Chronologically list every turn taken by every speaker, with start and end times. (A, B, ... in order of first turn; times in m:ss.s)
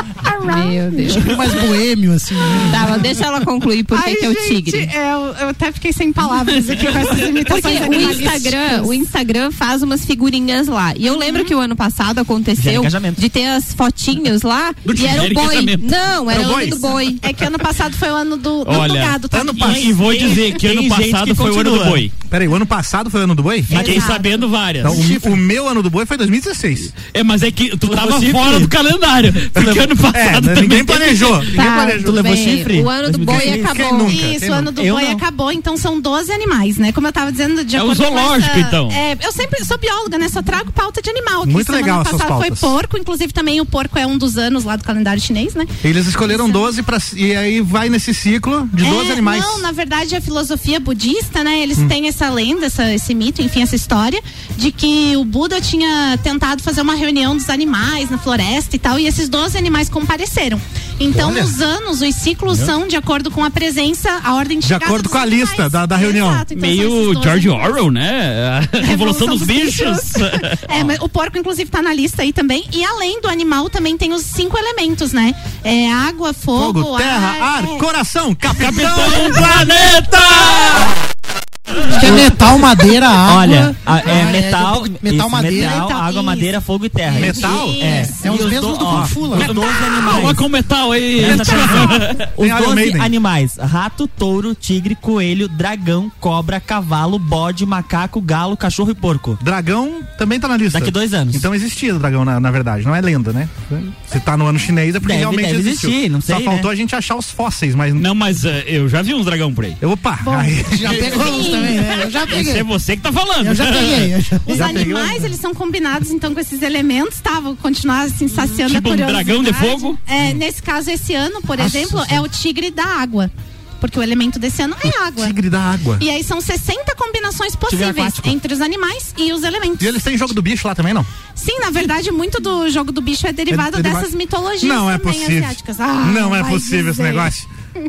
0:00.2-0:01.4 A
0:00.4-0:01.3 B
0:01.1-0:03.2 C
0:02.7-0:04.9 B
0:03.9-0:09.0 A
0:07.4-0:17.3 B
0:11.1-0:11.5 A
0:12.6-0:13.2 D
0:14.9-0:15.8 E
0:14.9-0:15.5 F
0:16.3-0:16.8 F
0:16.4-0:20.6 A
0:18.6-0:22.1 E
0:19.3-0:20.2 F
0:19.6-0:22.1 D
0:22.3-0:23.9 F
0:23.7-0:24.5 A
0:23.7-0:25.1 E
0:23.8-0:24.2 D
0:24.8-0:27.0 F
0:24.9-0:25.4 C
0:27.0-0:31.5 E
0:27.8-0:28.7 D
0:29.6-0:32.6 F
0:31.5-0:34.2 B
0:31.7-0:34.1 D
0:33.3-0:34.8 F
0:34.1-0:45.7 A
0:34.8-0:35.2 D
0:37.8-0:39.0 E
0:41.4-0:42.7 F
0:45.8-0:49.7 F
0:46.2-0:46.7 A
0:48.8-1:07.7 A
1:01.1-1:01.5 F
1:04.6-1:06.5 F
1:06.5-1:11.0 E
1:08.8-1:17.8 A
1:16.5-1:20.9 F
1:18.5-1:20.9 E
1:21.9-1:25.9 C
1:23.2-1:30.5 D
1:25.5-1:28.4 A
1:27.2-1:28.0 F
1:28.2-1:29.5 C
1:28.8-1:29.1 F
1:29.4-1:32.3 E
1:31.2-1:39.4 D
1:31.2-1:33.1 F
1:39.4-1:48.1 F
1:40.7-1:41.5 D
1:45.0-1:46.7 D
1:48.0-1:49.8 E
1:49.8-1:51.6 F
1:50.2-1:52.4 A
1:50.7-1:52.7 C
1:52.3-1:54.1 E
1:53.4-1:54.9 C
1:54.5-2:05.4 A
1:54.5-1:55.3 F
1:58.5-2:00.0 E
2:01.8-2:02.2 F
2:04.9-2:06.0 F
2:06.0-2:10.1 A
2:07.7-2:08.4 D
2:09.8-2:11.1 F
2:11.4-2:17.3 A
2:13.5-2:17.5 F